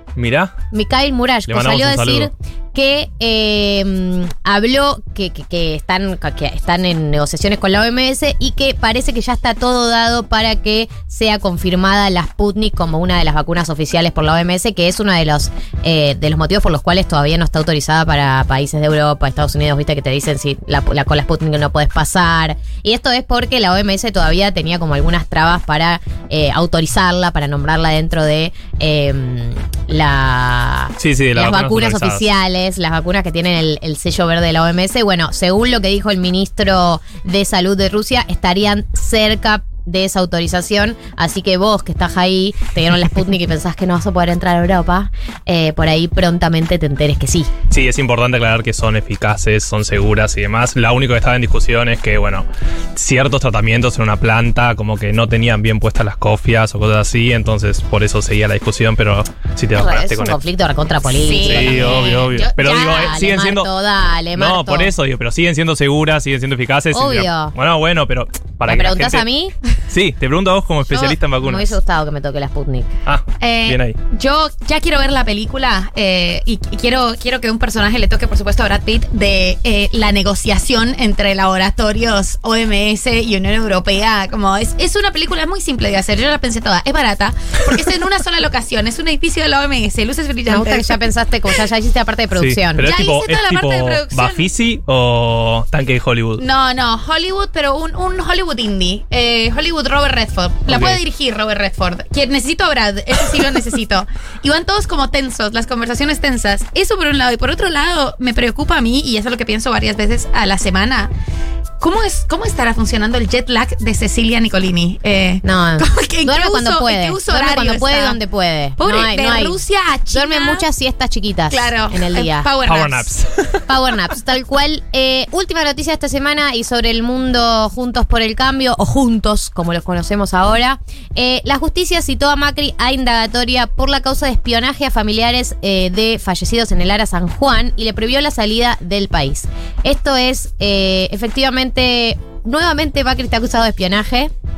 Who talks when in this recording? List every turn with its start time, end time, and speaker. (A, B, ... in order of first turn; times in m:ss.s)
0:00.2-0:00.5 A
0:00.7-0:47.5 B
0:01.5-0:02.3 A
0:31.0-0:32.2 A
0:47.7-1:00.4 A
0:59.7-1:04.9 B
1:01.2-1:03.3 C
1:01.4-1:03.7 A
1:04.4-1:09.2 A
1:06.9-1:07.5 B
1:08.6-1:09.5 B
1:09.9-1:11.7 A
1:10.9-1:12.9 B
1:13.1-1:14.0 A
1:13.4-1:31.0 C
1:30.5-1:32.9 B
1:32.4-1:36.4 A
1:32.8-1:34.4 C
1:36.4-1:51.1 C
1:40.7-1:41.0 A
1:51.8-1:58.2 C
1:55.4-1:59.6 B
1:58.8-2:00.7 C
2:00.1-2:02.5 B
2:01.5-2:03.1 C
2:02.6-2:03.6 A
2:03.7-2:24.3 B